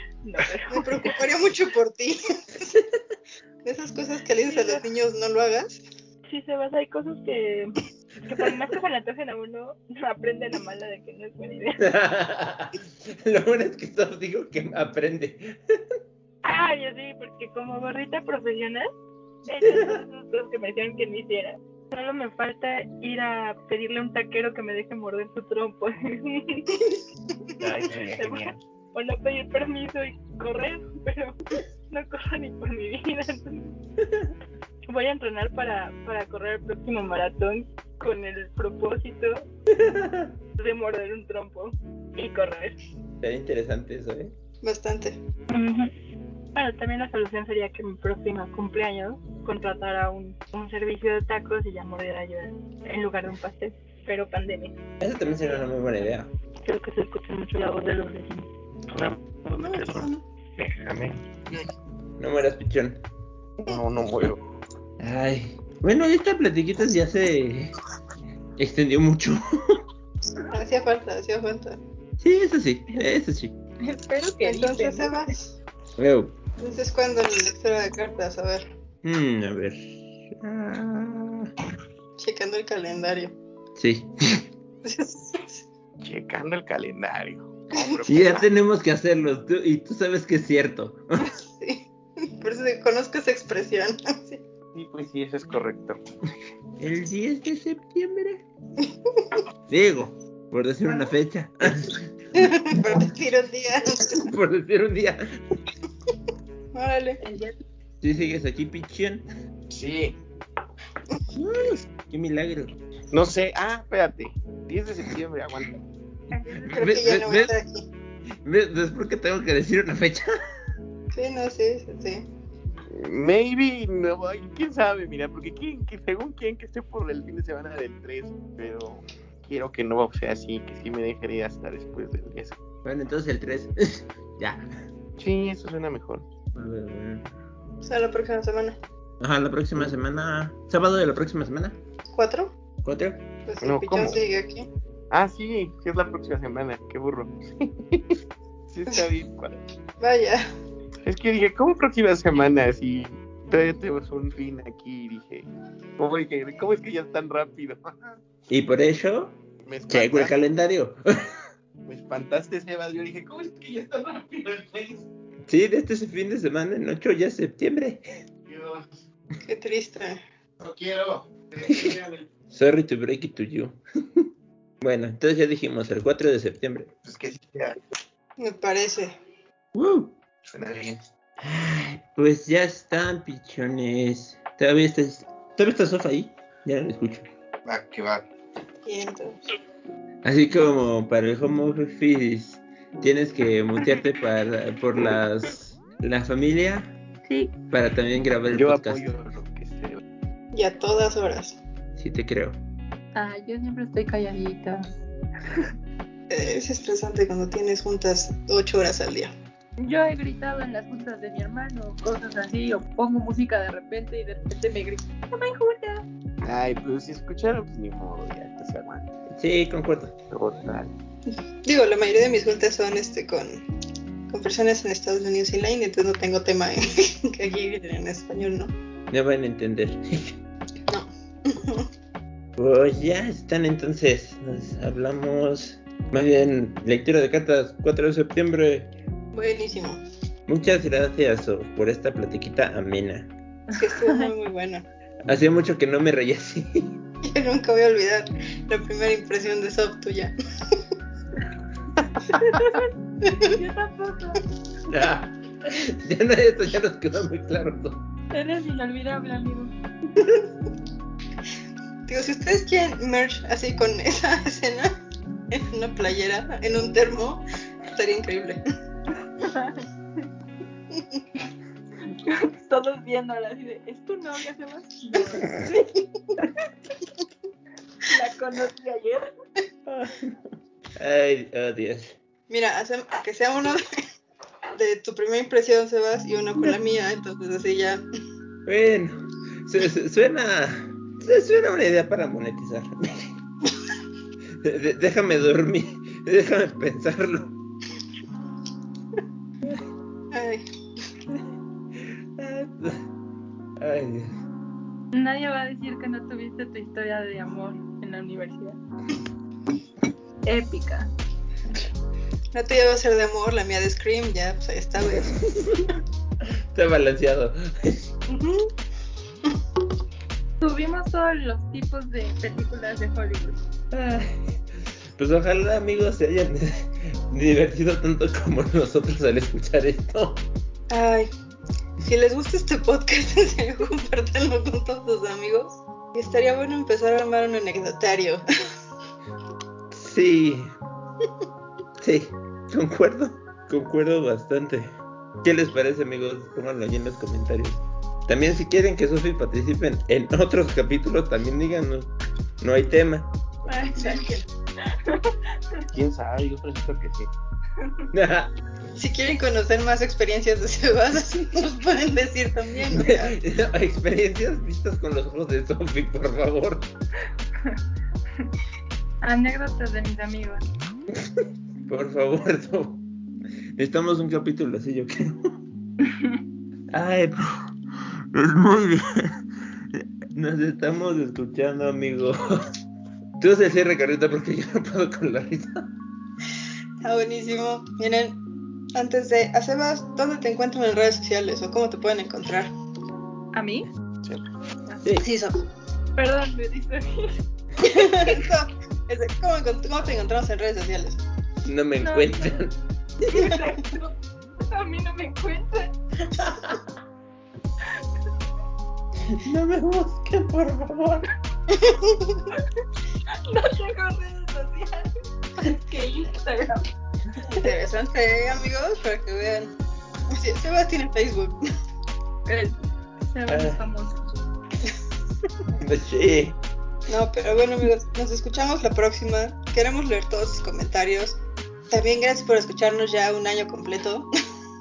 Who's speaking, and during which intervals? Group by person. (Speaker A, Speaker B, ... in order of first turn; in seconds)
Speaker A: 0.2-1.1, 4.4-4.9, 6.3-11.8, 16.4-18.9, 19.5-26.8, 28.2-33.8, 34.8-39.5, 40.6-42.8, 45.5-45.9, 46.5-54.8, 56.6-58.5, 73.9-75.1, 203.9-204.3, 211.8-212.6, 214.4-215.9, 252.4-252.8, 253.4-254.4, 258.3-259.7, 269.4-269.9, 272.2-275.8, 278.1-279.3, 305.4-308.8, 310.5-311.1, 320.7-321.2, 322.9-323.5, 353.7-355.9, 369.2-370.6, 393.5-393.9, 396.2-397.3, 397.8-398.2, 402.0-402.5, 403.3-405.9, 412.5-415.1, 415.7-416.8, 422.5-422.7
Speaker B: 0.7-2.7, 3.6-5.8, 44.6-45.2, 59.6-60.2, 70.5-71.8, 74.5-75.4, 76.6-78.7, 82.2-83.3, 84.8-85.6, 91.2-94.4, 98.8-99.4, 102.3-104.3, 106.7-107.2, 116.7-117.9, 121.1-122.3, 137.8-138.8, 142.1-142.6, 143.5-144.7, 150.0-150.5, 169.4-170.2, 178.4-179.2, 188.8-189.5, 200.5-201.6, 206.3-209.3, 221.3-223.6, 224.3-228.7, 230.9-231.9, 239.3-240.0, 243.8-244.9, 247.2-250.8, 262.1-264.9, 265.5-268.6, 270.9-271.2, 282.5-283.9, 284.8-288.0, 300.3-300.6, 312.5-315.4, 318.3-318.7, 330.9-331.3, 332.0-338.4, 353.8-354.4, 359.0-363.4, 387.0-388.4, 388.9-392.7, 395.2-395.6, 397.8-401.2, 411.7-412.5, 417.5-419.7, 420.3-421.6, 427.1-431.4, 431.9-434.3
Speaker C: 11.8-15.8, 19.6-20.0, 39.7-40.3, 43.2-44.3, 55.0-56.3, 62.2-63.0, 65.0-67.7, 68.6-69.8, 72.2-73.5, 76.0-76.4, 79.0-81.5, 83.8-84.4, 88.1-91.3, 96.8-98.4, 99.7-102.0, 104.1-105.2, 108.0-109.2, 111.3-112.8, 116.6-117.5, 118.4-120.4, 132.8-134.7, 136.5-137.3, 139.2-141.8, 142.8-143.2, 158.5-159.4, 159.9-161.0, 165.5-168.2, 171.7-172.0, 172.5-174.3, 174.8-176.9, 179.7-180.2, 181.4-187.3, 190.2-196.9, 197.7-199.1, 202.0-202.6, 219.3-220.2, 229.1-230.4, 232.6-238.9, 240.5-243.3, 245.3-247.0, 254.9-258.1, 279.9-282.2, 288.7-293.3, 294.6-297.6, 302.0-303.1, 303.8-304.4, 315.2-315.9, 316.5-318.1, 323.9-324.6, 325.2-330.4, 339.9-340.7, 342.0-353.3, 358.1-358.5, 362.9-366.9, 371.9-373.0, 373.8-375.6, 376.9-379.4, 379.9-382.6, 383.4-385.9, 401.6-403.5, 406.3-406.8, 409.3-411.3, 423.5-423.8, 425.8-426.6
Speaker D: 27.6-28.6, 58.9-61.7, 63.6-64.4, 86.0-88.5, 94.7-96.0, 109.7-110.2, 113.1-115.8, 122.9-132.6, 135.2-136.3, 143.6-144.2, 145.1-149.6, 151.0-158.0, 159.6-160.4, 161.9-165.1, 168.5-168.8, 170.6-172.3, 177.0-177.8, 180.4-181.0, 187.7-188.2, 198.5-200.0, 216.4-219.1, 220.3-220.9, 355.9-357.3
Speaker E: 74.4-74.7, 107.2-107.5, 116.5-117.0, 203.2-204.8, 209.8-215.9, 305.2-307.9, 320.6-323.5, 415.6-416.8, 423.3-424.1